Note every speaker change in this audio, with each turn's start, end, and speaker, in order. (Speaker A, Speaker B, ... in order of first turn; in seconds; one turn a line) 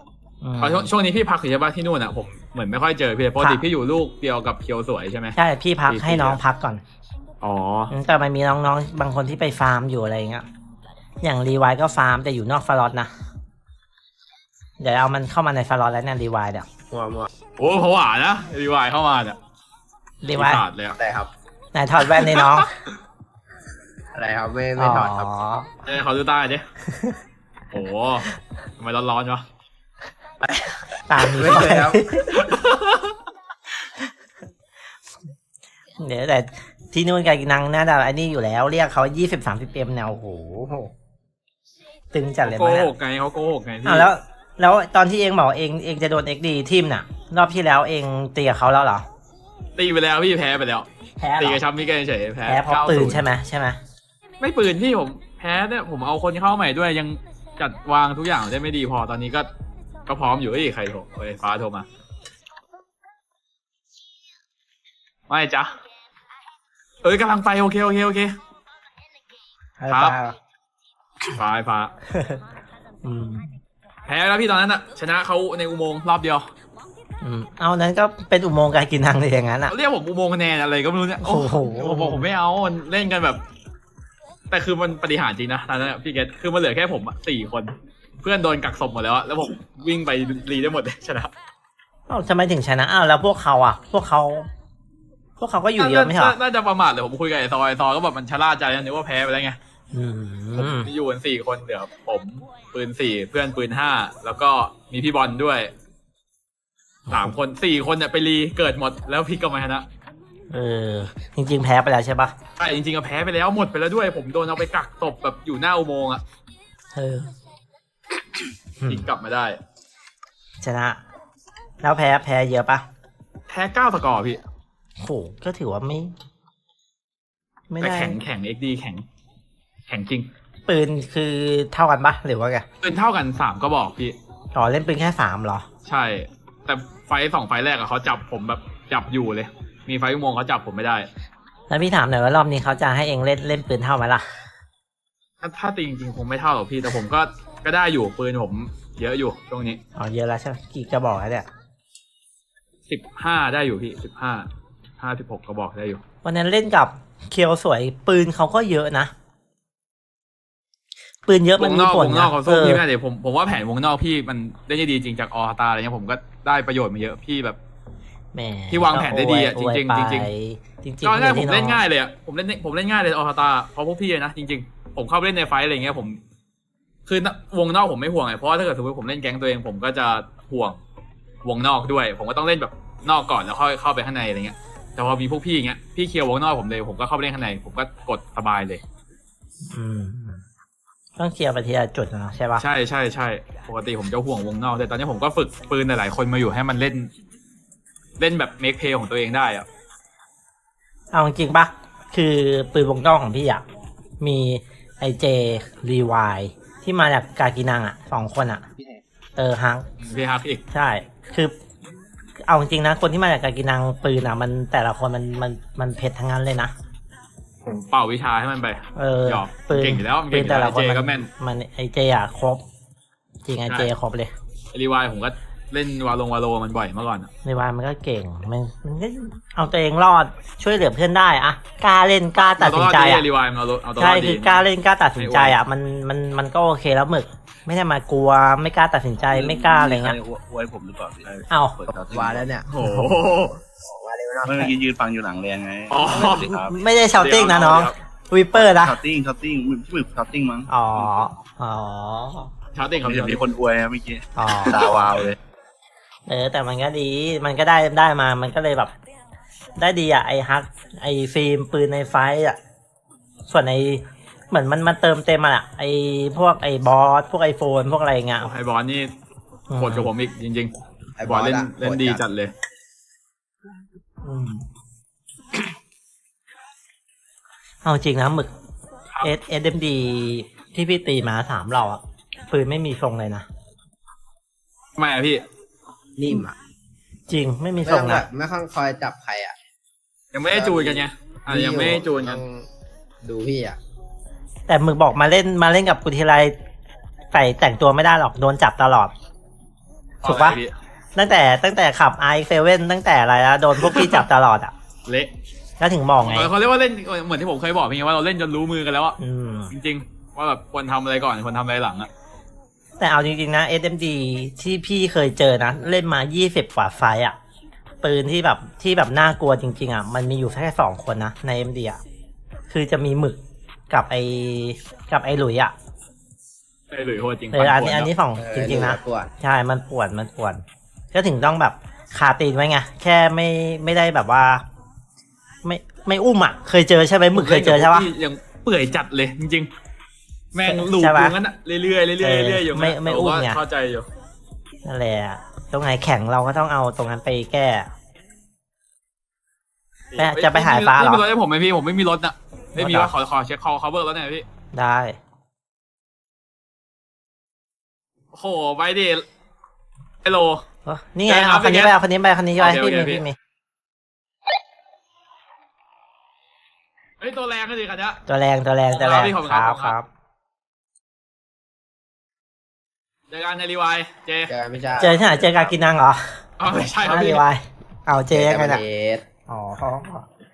Speaker A: 0.4-0.9
Speaker B: 0.6-5.4
Speaker A: 3.4-3.6
Speaker A: 5.4-6.8
Speaker B: 5.9-6.4
Speaker B: 7.4-7.9
Speaker A: 7.9-10.5
Speaker A: 11.2-13.1
Speaker A: 14.8-16.7
Speaker C: 16.9-17.3
Speaker B: 17.6-19.4
Speaker A: 20.2-20.6
Speaker B: 20.3-21.0
Speaker C: 21.0-21.3
Speaker A: 21.7-22.7
Speaker C: 24.1-25.3
Speaker A: 24.8-25.7
Speaker B: 25.8-26.6
Speaker A: 26.9-27.2
Speaker B: 27.7-29.5
Speaker C: 30.4-32.0
Speaker A: 31.1-32.3
Speaker B: 32.3-33.0
Speaker A: 36.0-40.9
Speaker A: 42.1-42.9
Speaker B: 42.4-44.1
Speaker A: 43.9-49.1
Speaker B: 49.8-50.9
Speaker A: 51.2-51.6
Speaker B: 51.4-53.2
Speaker A: 52.5-53.8
Speaker B: 54.4-59.5
Speaker B: 60.1-61.9
Speaker B: 65.3-65.7
Speaker B: 67.0-68.4
Speaker A: 69.8-70.4
Speaker B: 69.9-70.2
Speaker B: 71.3-71.9
Speaker A: 72.1-72.4
Speaker A: 73.0-73.6
Speaker B: 74.0-76.5
Speaker A: 77.2-79.7
Speaker B: 79.7-83.4
Speaker A: 81.2-82.3
Speaker B: 84.5-91.3
Speaker A: 92.1-94.5
Speaker A: 95.4-96.4
Speaker B: 95.8-99.6
Speaker A: 99.9-100.9
Speaker B: 100.6-105.7
Speaker A: 107.1-107.4
Speaker B: 107.1-109.9
Speaker A: 110.5-112.3
Speaker B: 112.6-116.2
Speaker A: 116.9-117.3
Speaker A: 118.8-119.1
Speaker B: 118.9-119.6
Speaker A: 120.6-121.0
Speaker A: 121.8-122.8
Speaker B: 123.5-124.4
Speaker A: 125.0-126.1
Speaker A: 127.7-128.2
Speaker B: 127.8-129.0
Speaker B: 129.9-130.3
Speaker A: 130.7-132.7
Speaker B: 132.8-134.2
Speaker A: 134.5-135.7
Speaker B: 135.8-141.1
Speaker A: 141.7-144.4
Speaker B: 145.4-149.8
Speaker A: 150.0-151.5
Speaker B: 152.9-156.0
Speaker A: 156.2-159.1
Speaker A: 161.3-162.8
Speaker B: 161.6-167.6
Speaker A: 168.3-171.8
Speaker B: 168.7-170.3
Speaker B: 171.0-176.2
Speaker B: 177.1-180.8
Speaker B: 181.4-188.8
Speaker A: 189.7-190.4
Speaker A: 191.2-192.6
Speaker B: 192.6-197.1
Speaker B: 198.2-199.7
Speaker A: 201.1-203.7
Speaker A: 204.2-208.6
Speaker A: 209.4-209.9
Speaker B: 210.0-210.6
Speaker A: 210.7-211.5
Speaker A: 212.4-216.7
Speaker B: 217.6-221.3
Speaker A: 219.0-222.6
Speaker A: 223.5-224.3
Speaker B: 224.7-227.3
Speaker A: 227.4-233.3
Speaker B: 232.6-235.6
Speaker A: 234.0-240.2
Speaker D: 239.3-242.5
Speaker A: 241.5-241.8
Speaker C: 242.1-242.7
Speaker B: 242.7-243.6
Speaker A: 242.8-243.2
Speaker C: 243.8-244.7
Speaker D: 244.4-246.8
Speaker B: 245.9-246.5
Speaker A: 246.1-249.0
Speaker B: 247.2-247.9
Speaker D: 248.6-251.2
Speaker A: 250.7-252.5
Speaker B: 252.7-253.4
Speaker D: 253.0-255.4
Speaker A: 254.4-254.9
Speaker A: 256.3-258.9
Speaker A: 259.8-262.6
Speaker A: 263.5-268.5
Speaker B: 268.4-269.1
Speaker A: 269.7-270.1
Speaker B: 269.8-272.5
Speaker C: 271.2-272.2
Speaker A: 274.2-274.6
Speaker A: 277.8-278.5
Speaker A: 279.2-283.5
Speaker B: 285.0-285.4
Speaker C: 286.2-286.6
Speaker A: 287.3-288.3
Speaker C: 287.8-289.6
Speaker B: 290.3-292.4
Speaker C: 290.5-292.7
Speaker C: 293.2-293.8
Speaker A: 294.7-296.5
Speaker A: 297.3-299.1
Speaker A: 300.2-300.6
Speaker B: 300.2-300.8
Speaker A: 301.1-304.7
Speaker B: 303.9-304.2
Speaker B: 305.1-305.3
Speaker A: 305.8-306.5
Speaker B: 306.2-309.2
Speaker A: 309.2-309.7
Speaker B: 309.7-312.1
Speaker A: 313.0-317.4
Speaker A: 318.0-322.0
Speaker A: 322.7-323.4
Speaker A: 323.9-325.7
Speaker B: 326.9-328.1
Speaker A: 327.5-334.6
Speaker C: 328.4-329.3
Speaker A: 335.6-338.1
Speaker B: 337.3-339.7
Speaker B: 340.5-344.1
Speaker A: 340.6-341.4
Speaker A: 342.2-343.6
Speaker A: 344.8-347.9
Speaker B: 350.1-354.4
Speaker A: 350.2-351.3
Speaker A: 352.8-353.1
Speaker A: 354.7-355.2
Speaker B: 358.3-359.2
Speaker B: 360.2-360.6
Speaker A: 360.9-363.4
Speaker B: 361.3-361.9
Speaker B: 362.6-363.2
Speaker B: 367.2-368.2
Speaker A: 368.3-370.1
Speaker B: 368.9-370.0
Speaker B: 373.3-374.5
Speaker C: 374.5-375.6
Speaker A: 375.0-376.4
Speaker B: 376.6-377.4
Speaker A: 377.0-378.8
Speaker C: 378.3-379.2
Speaker A: 379.5-380.3